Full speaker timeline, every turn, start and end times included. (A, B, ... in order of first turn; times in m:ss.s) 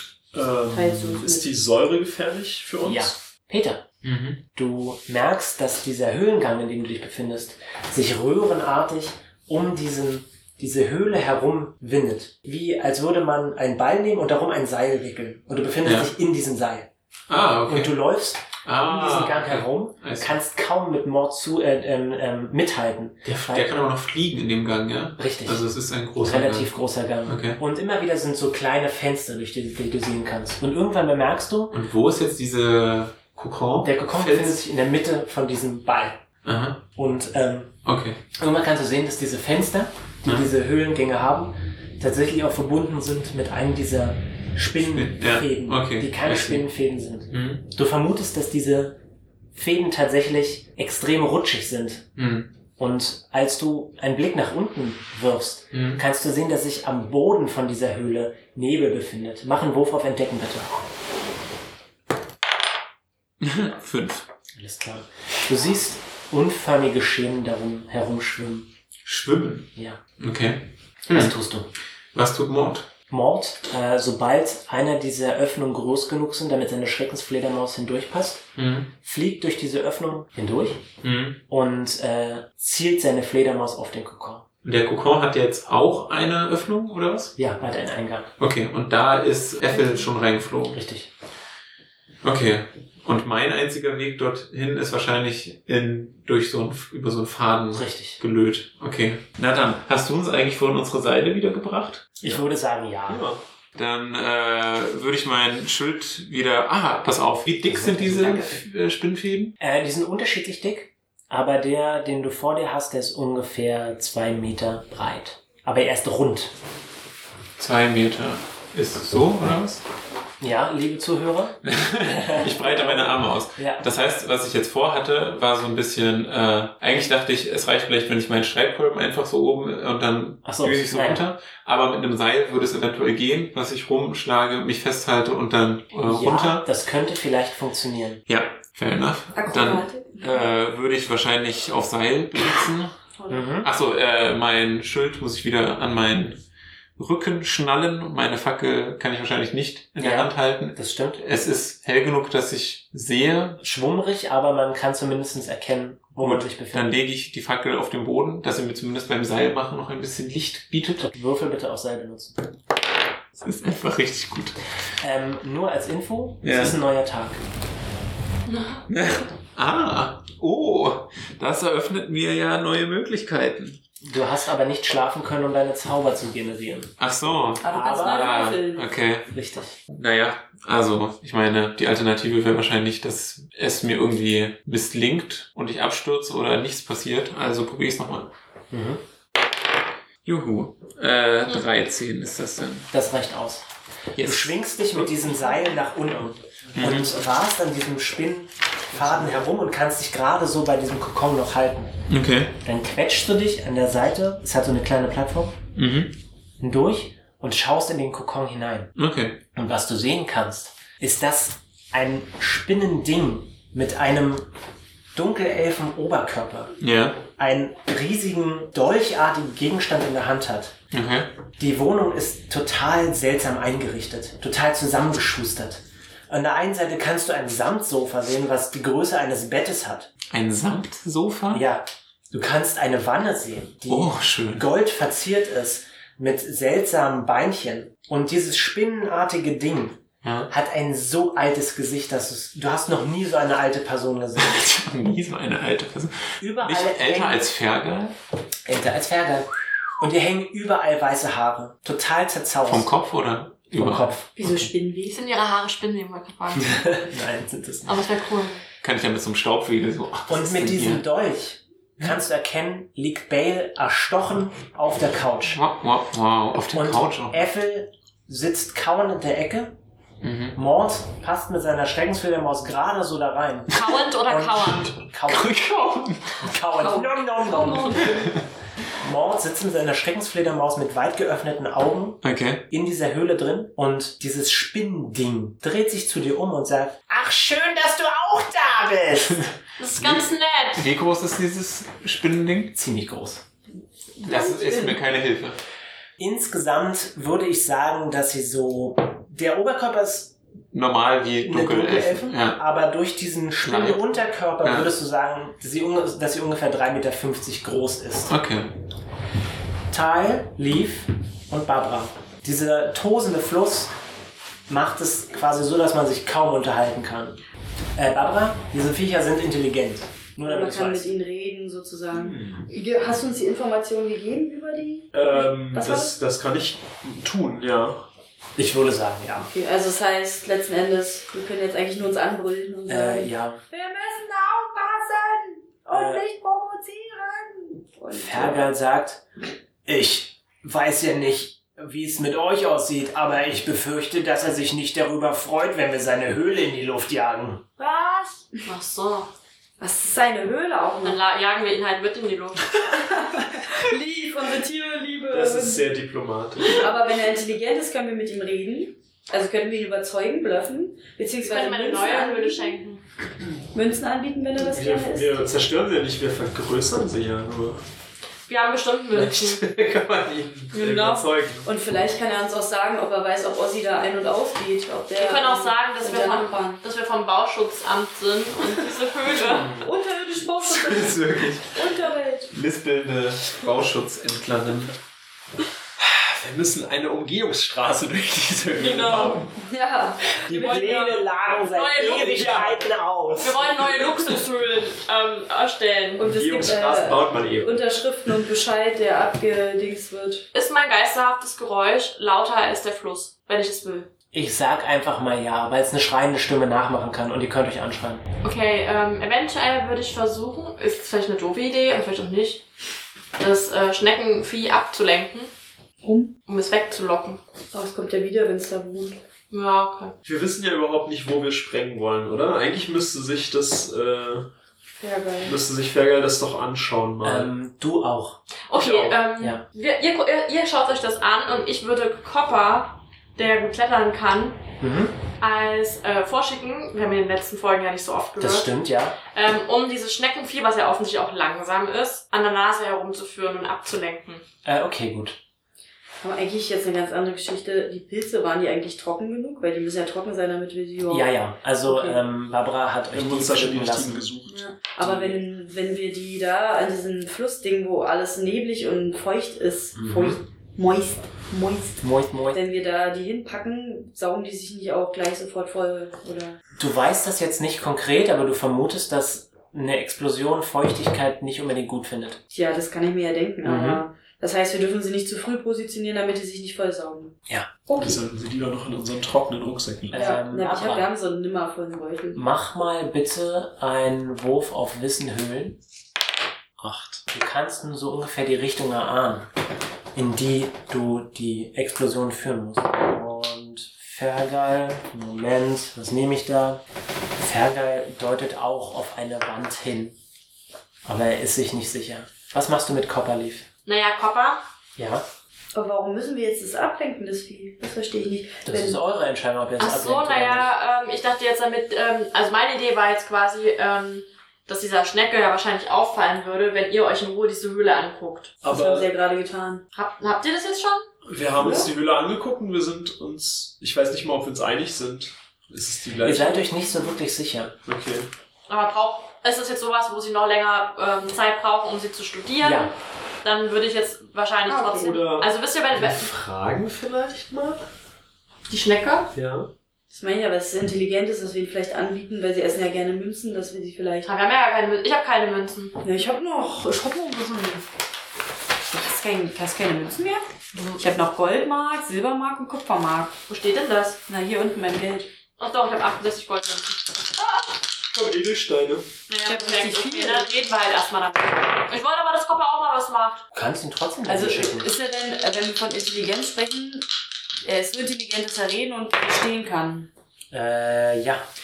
0:00.3-0:03.2 A
0:00.7-0:01.5 B
0:02.8-0:03.8 C
0:04.0-0:04.4 D
0:04.5-0:16.9 C
0:15.8-0:16.1 D
0:17.3-0:17.9 D
0:17.7-0:23.7 C
0:18.6-0:20.4 D
0:23.2-0:26.7 D
0:25.2-0:31.8 C
0:27.2-0:27.6 D
0:31.7-0:34.6 D
0:33.8-0:36.2 C
0:36.4-0:36.8 D
0:36.9-0:37.8 C
0:37.8-0:38.2 D
0:38.3-0:49.0 C
0:44.8-0:46.6 D
0:47.3-0:47.6 D
0:49.5-0:52.1 C
0:52.2-0:52.5 D
0:52.8-1:00.7 C
0:55.7-0:56.0 D
1:03.4-1:04.3 D
1:04.5-1:08.7 C
1:09.0-1:11.3 D
1:09.7-1:10.0 C
1:11.1-1:11.7 C
1:12.1-1:12.9 D
1:13.1-1:18.5 C
1:18.6-1:18.9 D
1:19.0-1:20.9 C
1:21.0-1:21.4 D
1:21.5-1:24.4 C
1:24.6-1:27.3 D
1:27.4-1:28.3 C
1:28.4-1:30.8 D
1:30.7-1:31.1 C
1:32.2-1:42.4 D
1:37.7-1:38.2 C
1:42.2-1:43.3 C
1:43.1-1:43.4 A
1:43.7-1:49.6 D
1:47.6-1:48.6 C
1:49.6-1:56.5 C
1:57.6-1:59.8 D
2:00.4-2:03.9 C
2:01.6-2:16.6 D
2:10.4-2:11.2 C
2:16.0-2:18.2 C
2:18.3-2:23.0 D
2:19.3-2:20.5 B
2:23.2-2:23.5 B
2:23.3-2:23.7 C
2:23.6-2:26.4 D
2:27.0-2:33.6 D
2:30.0-2:31.2 C
2:33.6-2:37.0 C
2:36.2-2:41.1 D
2:41.0-2:42.4 C
2:43.4-2:44.6 D
2:45.0-2:47.4 C
2:46.4-2:46.8 D
2:48.5-2:48.8 E
2:48.9-2:53.8 D
2:54.0-2:56.9 C
2:57.0-2:59.3 D
2:57.6-2:58.9 B
2:57.7-2:58.4 C
2:59.3-2:59.8 C
2:59.9-3:08.3 D
3:08.7-3:09.0 C
3:10.2-3:12.9 D
3:12.9-3:13.7 C
3:14.1-3:14.6 D
3:14.2-3:21.9 C
3:16.7-3:17.0 A
3:16.8-3:17.1 D
3:18.9-3:19.4 A
3:22.1-3:22.6 D
3:22.6-3:25.6 C
3:25.8-3:26.2 D
3:26.6-3:28.9 C
3:29.0-3:29.4 D
3:29.5-3:34.5 C
3:35.1-3:36.8 C
3:36.8-3:37.2 D
3:37.4-3:40.8 C
3:40.9-3:41.3 D
3:41.6-3:50.1 C
3:50.3-3:51.6 D
3:51.5-4:04.7 C
3:53.9-3:54.6 D
4:00.2-4:00.5 D
4:04.4-4:08.2 D
4:06.4-4:07.4 C
4:08.7-4:12.9 C
4:12.6-4:14.6 D
4:13.7-4:14.3 C
4:14.4-4:15.2 B
4:15.1-4:16.9 E
4:16.6-4:18.0 C
4:17.8-4:18.6 E
4:18.8-4:21.0 D
4:20.3-4:25.6 C
4:25.5-4:27.4 D
4:26.7-4:29.7 C
4:30.2-4:30.6 D
4:30.5-4:35.6 C
4:33.7-4:34.9 E
4:35.2-4:36.5 D
4:36.4-4:38.3 C
4:36.8-4:38.2 B
4:36.9-4:38.0 E
4:39.0-4:49.5 C
4:42.2-4:42.6 D
4:49.8-4:50.9 E
4:50.0-4:52.7 D
4:52.7-4:53.4 C
4:54.2-4:55.0 B
4:54.2-4:55.6 D
4:56.2-5:00.4 C
5:00.7-5:02.6 D
5:01.4-5:08.3 C
5:03.6-5:04.9 D
5:08.3-5:08.7 D
5:09.9-5:13.9 C
5:14.7-5:17.4 C
5:18.0-5:21.1 C
5:20.4-5:26.2 B
5:22.1-5:22.6 A
5:25.1-5:28.1 A
5:28.6-5:29.5 C
5:29.4-5:38.7 B
5:32.9-5:33.6 C
5:35.9-5:36.2 C
5:38.1-5:39.2 C
5:39.8-5:47.8 C
5:47.8-5:48.6 B
5:48.6-5:49.3 E
5:49.8-5:51.2 B
5:51.0-5:52.8 E
5:52.8-5:55.9 B
5:55.3-5:56.9 A
5:56.7-6:02.8 B
6:01.4-6:03.0 E
6:03.7-6:05.5 B
6:04.6-6:07.8 A
6:08.5-6:09.6 E
6:09.1-6:11.7 A
6:10.7-6:16.8 B
6:15.1-6:19.7 E
6:19.3-6:19.9 A
6:19.8-6:22.5 B
6:20.8-6:21.6 D
6:20.9-6:21.5 A
6:22.5-6:24.9 D
6:26.0-6:29.5 A
6:28.8-6:29.4 E
6:29.6-6:31.1 B
6:30.5-6:31.0 A
6:30.5-6:33.9 C
6:30.5-6:32.6 E
6:32.0-6:32.9 A
6:33.4-6:36.3 E
6:36.2-6:37.8 A
6:36.2-6:40.4 B
6:40.5-6:44.1 E
6:44.3-6:48.2 C
6:48.4-6:52.6 E
6:53.4-6:55.5 E
6:56.0-6:56.3 B
6:56.5-6:57.4 E
6:57.7-6:59.2 B
6:59.5-7:00.1 E
7:00.2-7:04.5 A
7:05.0-7:05.6 B
7:05.4-7:07.5 A
7:07.2-7:08.4 C
7:08.7-7:14.6 E
7:08.7-7:09.2 A
7:09.4-7:09.6 C
7:14.8-7:15.2 C
7:15.4-7:18.7 E
7:18.4-7:19.2 C
7:19.3-7:24.4 E
7:24.6-7:25.4 C
7:26.2-7:31.3 B
7:31.1-7:34.3 C
7:31.8-7:32.2 B
7:33.1-7:35.4 A
7:34.5-7:42.0 B
7:39.9-7:40.4 C
7:42.0-7:42.6 C
7:42.5-7:46.6 B
7:46.8-7:52.4 C
7:52.5-7:58.2 B
7:53.6-7:54.0 C
7:58.0-8:00.4 A
8:00.1-8:01.1 C
8:00.1-8:02.4 B
8:02.3-8:05.8 C
8:06.8-8:07.1 A
8:07.2-8:09.5 C
8:10.1-8:16.8 C
8:17.4-8:20.2 C
8:21.0-8:23.6 C
8:23.8-8:24.6 E
8:25.0-8:25.2 C
8:25.7-8:29.0 B
8:28.6-8:30.7 C
8:29.8-8:38.6 E
8:38.6-8:39.1 A
8:38.6-8:39.8 B
8:39.9-8:41.0 E
8:41.2-8:46.7 A
8:41.6-8:41.9 B
8:46.2-8:47.7 C
8:47.8-8:48.3 A
8:48.7-8:52.9 E
8:52.6-8:52.9 C
8:53.4-8:56.3 E
8:54.7-8:55.2 B
8:55.0-8:57.8 A
8:58.7-8:59.3 E
8:59.3-8:59.7 A
9:00.1-9:04.3 B
9:04.2-9:06.0 E
9:06.0-9:07.8 B
9:08.9-9:13.3 B
9:10.7-9:11.0 E
9:13.5-9:14.2 E
9:14.3-9:15.3 B
9:15.6-9:17.0 E
9:18.1-9:19.0 A
9:19.3-9:23.4 E
9:19.4-9:20.5 B
9:23.5-9:24.9 C
9:24.2-9:27.1 B
9:27.6-9:30.1 B
9:30.5-9:31.4 C